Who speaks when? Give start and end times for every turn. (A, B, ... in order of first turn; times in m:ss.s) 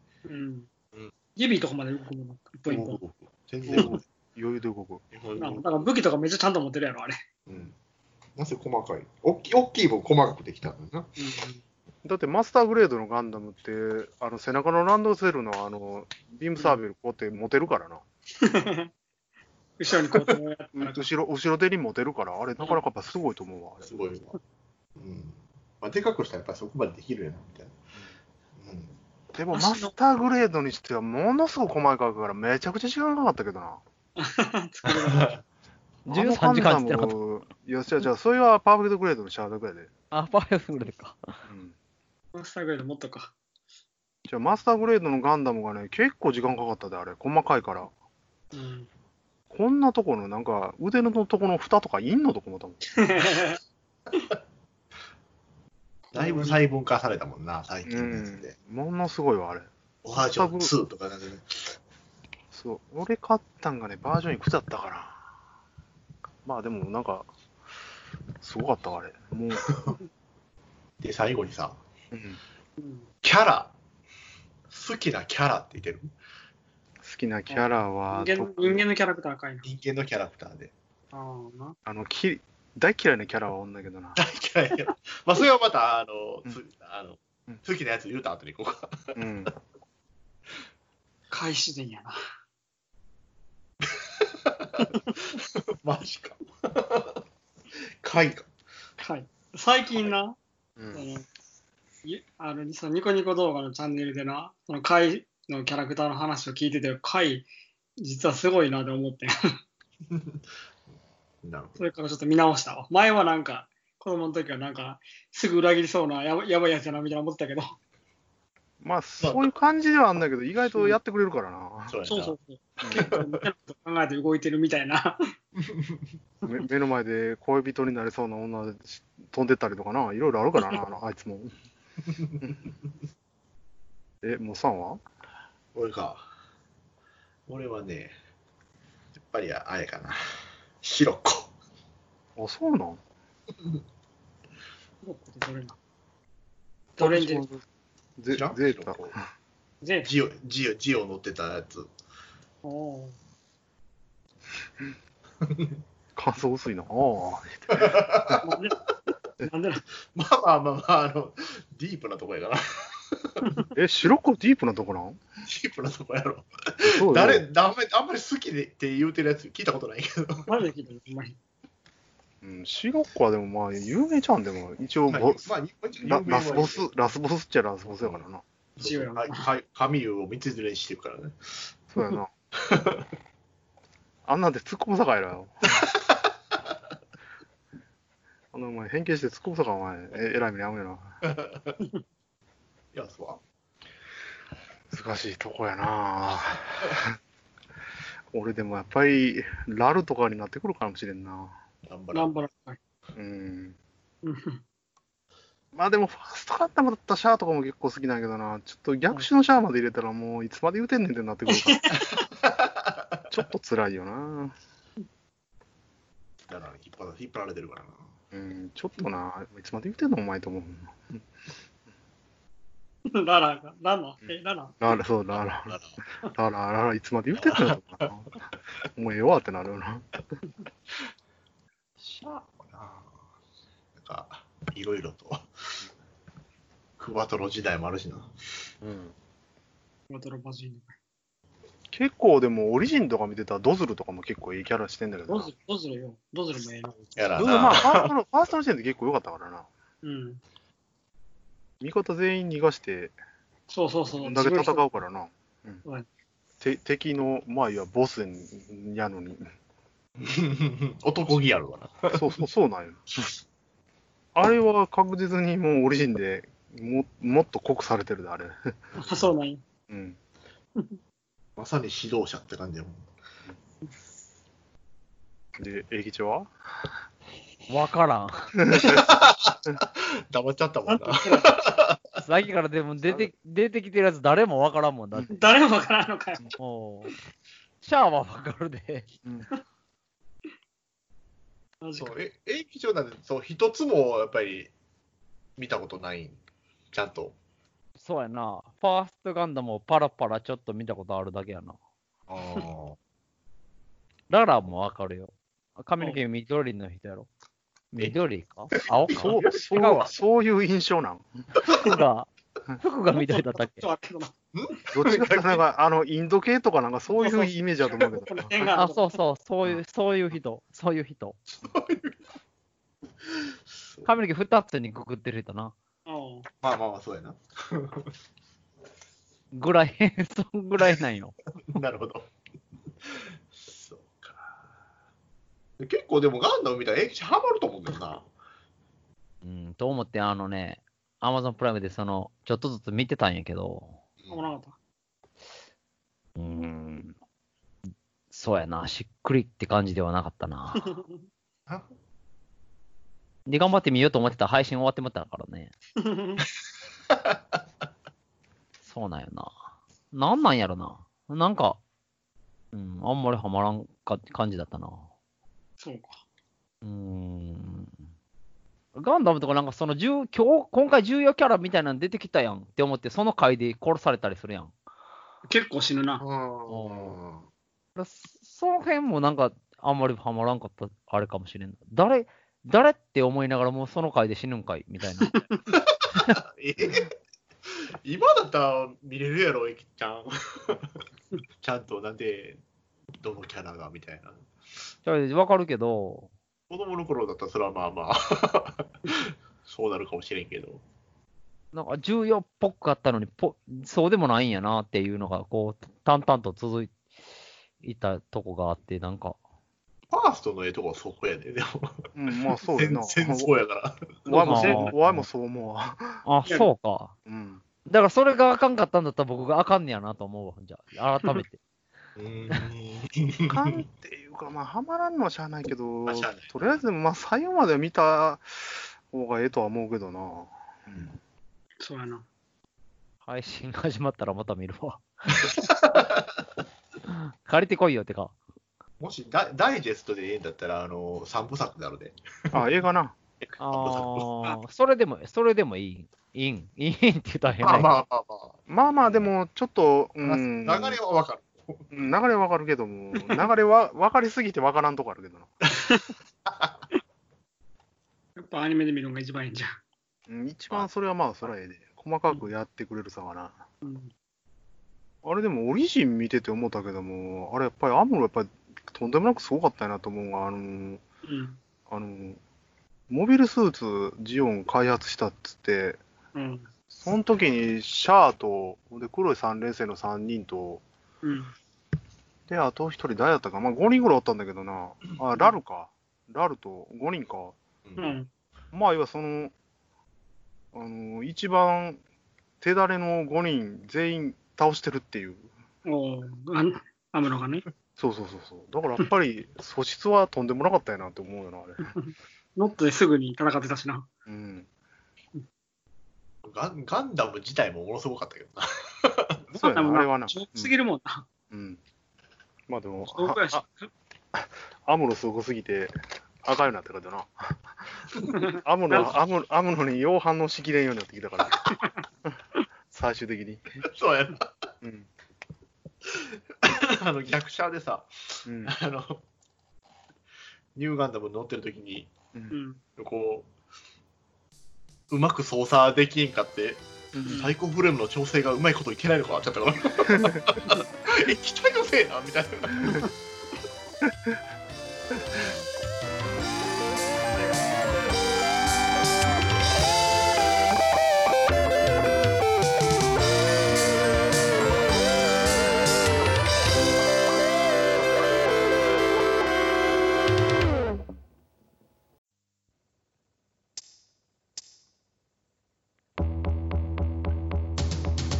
0:00.2-0:00.7 A
0:01.4-0:03.0 A
0:02.7-0:04.0 B
0:03.7-0:05.0 C
0:05.1-0:05.8 B
0:05.4-0:07.2 A
0:07.5-0:07.7 B
0:08.4-0:11.1 B
0:11.2-0:11.6 A
0:12.0-0:18.0 C
0:18.4-0:18.9 A
0:19.8-0:21.1 A
0:20.8-0:23.9 C
0:23.8-0:24.4 B
0:25.0-0:27.8 B
0:28.6-0:28.9 B
0:29.3-0:33.8 C
0:29.5-0:29.9 A
0:34.2-0:35.4 A
0:34.9-0:35.4 B
0:36.1-0:37.2 D
0:36.1-0:39.9 C
0:40.1-0:41.3 D
0:41.5-0:41.7 C
0:42.3-0:43.3 A
0:44.3-0:47.9 C
0:48.5-0:48.9 A
0:49.5-0:52.9 C
0:52.9-0:53.6 A
0:56.1-0:56.6 A
0:56.1-0:58.5 B
0:57.9-0:59.7 C
1:00.0-1:01.8 B
1:00.2-1:00.7 C
1:02.5-1:05.2 C
1:06.4-1:07.3 C
1:08.4-1:09.7 C
1:09.7-1:09.9 B
1:11.0-1:11.8 B
1:12.1-1:12.4 C
1:12.8-1:13.1 A
1:13.2-1:13.7 B
1:14.7-1:16.1 B
1:17.0-1:18.8 C
1:17.5-1:19.7 A
1:19.6-1:20.7 B
1:21.1-1:21.8 A
1:21.9-1:24.2 C
1:24.2-1:29.2 B
1:29.2-1:29.5 C
1:31.3-1:32.2 A
1:33.8-1:37.2 B
1:38.0-1:38.5 B
1:39.0-1:40.4 A
1:40.8-1:41.0 C
1:40.9-1:41.2 A
1:42.0-1:47.5 A
1:48.0-1:49.4 A
1:50.1-1:50.4 B
1:51.4-1:51.8 B
1:51.8-1:57.8 A
1:58.8-2:02.0 C
1:59.2-1:59.5 B
2:01.9-2:02.4 B
2:02.1-2:05.3 A
2:02.8-2:03.1 C
2:02.9-2:03.4 B
2:05.6-2:06.0 B
2:06.4-2:11.5 C
2:12.1-2:12.3 B
2:14.2-2:15.0 C
2:15.7-2:16.2 B
2:17.5-2:18.1 B
2:19.1-2:20.2 B
2:20.8-2:21.5 B
2:22.4-2:23.0 C
2:25.0-2:25.8 A
2:27.0-2:27.6 C
2:27.0-2:27.4 A
2:28.2-2:29.2 C
2:28.3-2:29.2 B
2:29.8-2:30.1 A
2:30.0-2:31.9 B
2:32.6-2:33.2 A
2:35.4-2:35.7 B
2:36.2-2:38.4 C
2:37.7-2:38.4 B
2:38.4-2:38.9 A
2:39.4-2:39.8 A
2:40.1-2:43.6 B
2:43.7-2:45.2 C
2:45.4-2:50.6 B
2:46.8-2:47.4 C
2:50.4-2:51.4 A
2:52.4-2:55.4 C
2:55.1-2:56.9 B
2:56.0-2:58.4 C
2:57.9-2:58.2 B
2:58.8-3:01.7 B
2:58.8-2:59.5 A
3:01.9-3:02.3 C
3:02.6-3:03.0 B
3:04.2-3:05.8 C
3:05.8-3:06.1 B
3:08.5-3:11.2 C
3:11.3-3:11.7 B
3:12.9-3:13.4 B
3:14.9-3:17.2 C
3:18.3-3:21.6 C
3:21.9-3:22.3 B
3:22.1-3:22.8 A
3:23.2-3:23.8 C
3:24.2-3:24.6 A
3:25.7-3:31.9 C
3:31.5-3:32.2 A
3:32.4-3:33.1 B
3:33.3-3:34.5 C
3:36.4-3:38.1 B
3:38.3-3:41.2 C
3:43.1-3:44.8 A
3:44.2-3:48.4 C
3:45.4-3:46.0 B
3:47.3-3:48.1 B
3:49.0-3:50.1 C
3:52.1-3:53.1 B
3:53.9-3:55.8 B
3:57.0-3:58.4 B
3:58.8-3:59.1 C
4:00.1-4:01.0 A
4:01.9-4:05.5 C
4:05.3-4:07.0 A
4:07.1-4:08.1 B
4:07.4-4:09.7 C
4:07.4-4:07.8 D
4:10.0-4:10.4 A
4:11.8-4:13.1 C
4:13.7-4:14.8 A
4:14.2-4:15.8 C
4:16.6-4:19.4 C
4:20.2-4:22.4 B
4:22.1-4:23.0 C
4:24.4-4:28.7 C
4:29.0-4:29.6 A
4:29.9-4:30.2 C
4:31.6-4:33.1 B
4:35.6-4:36.5 C
4:37.7-4:38.5 D
4:38.7-4:39.1 C
4:38.7-4:42.0 B
4:40.9-4:41.5 A
4:42.2-4:45.3 D
4:45.3-4:46.5 A
4:46.6-4:47.1 D
4:47.8-4:49.1 D
4:51.8-4:52.1 A
4:52.0-4:54.7 B
4:55.6-4:56.4 B
4:56.9-4:57.4 B
4:58.0-5:01.8 D
5:02.3-5:03.0 B
5:04.3-5:07.3 D
5:07.9-5:10.1 D
5:08.8-5:09.9 B
5:09.1-5:11.4 C
5:11.6-5:12.3 D
5:12.8-5:13.9 D
5:13.1-5:14.3 A
5:14.5-5:15.6 B
5:14.9-5:18.5 C
5:17.2-5:19.1 A
5:18.6-5:21.4 D
5:21.5-5:22.2 B
5:23.8-5:24.1 B
5:24.0-5:25.7 D
5:26.0-5:26.5 A
5:26.6-5:28.1 B
5:29.5-5:31.4 D
5:31.6-5:32.3 B
5:33.0-5:34.6 B
5:35.8-5:38.3 B
5:39.4-5:44.0 D
5:44.3-5:44.8 A
5:46.4-5:47.1 D
5:48.3-5:50.9 D
5:50.8-5:51.2 A
5:53.5-5:55.7 D
5:56.0-5:56.4 A
5:58.8-5:59.5 D
6:00.1-6:01.8 D
6:02.7-6:05.0 D
6:05.8-6:06.2 A
6:06.8-6:07.9 D
6:08.9-6:14.7 D
6:15.5-6:16.2 A
6:16.2-6:17.4 B
6:16.7-6:17.2 D
6:18.0-6:25.4 D
6:25.3-6:25.6 A
6:25.7-6:27.1 B
6:26.1-6:26.4 D
6:27.7-6:31.0 B
6:31.6-6:32.6 B
6:33.2-6:34.4 B
6:35.0-6:36.3 D
6:36.7-6:40.8 B
6:41.7-6:46.9 D
6:47.8-6:49.4 D
6:50.1-6:54.2 B
6:52.1-6:53.5 C
6:54.3-6:54.9 A
6:54.3-6:56.2 C
6:54.5-6:55.2 D
6:56.2-6:57.1 D
6:57.2-6:57.6 C
6:57.9-7:01.6 D
7:02.2-7:03.8 B
7:03.5-7:11.1 C
7:06.1-7:06.8 B
7:11.8-7:12.2 A
7:13.2-7:15.1 D
7:15.3-7:16.4 B
7:17.0-7:18.4 D
7:19.0-7:22.7 B
7:22.5-7:23.1 C
7:23.4-7:24.3 B
7:23.6-7:27.9 D
7:27.6-7:29.3 B
7:28.7-7:31.0 C
7:30.2-7:31.9 B
7:31.9-7:35.5 C
7:36.4-7:36.8 B
7:38.4-7:39.8 A
7:40.3-7:43.6 C
7:43.8-7:44.1 A
7:45.2-7:51.0 C
7:51.2-7:51.6 A
7:51.9-7:52.4 C
7:53.1-7:56.0 C
7:56.4-7:56.7 A
7:56.9-8:00.8 C
8:01.2-8:01.5 A
8:02.5-8:07.6 C
8:07.8-8:08.1 B
8:08.0-8:08.3 A
8:08.7-8:09.5 C
8:10.7-8:12.0 C
8:12.6-8:15.5 C
8:15.8-8:17.6 A
8:18.0-8:21.9 C
8:21.8-8:24.1 A
8:24.3-8:24.7 C
8:26.4-8:29.5 B
8:29.5-8:30.7 C
8:29.6-8:31.2 A
8:31.5-8:31.8 C
8:32.7-8:33.6 C
8:33.1-8:33.9 A
8:34.3-8:37.8 C
8:38.3-8:39.1 A
8:38.5-8:43.8 C
8:43.8-8:44.7 B
8:44.8-8:45.1 C
8:46.0-8:49.2 B
8:48.4-8:48.7 C
8:50.7-8:52.1 B
8:52.5-8:52.8 A
8:53.0-8:53.5 B
8:55.1-9:03.0 B
8:57.1-8:57.4 C
8:57.2-8:57.5 A
9:00.0-9:00.6 C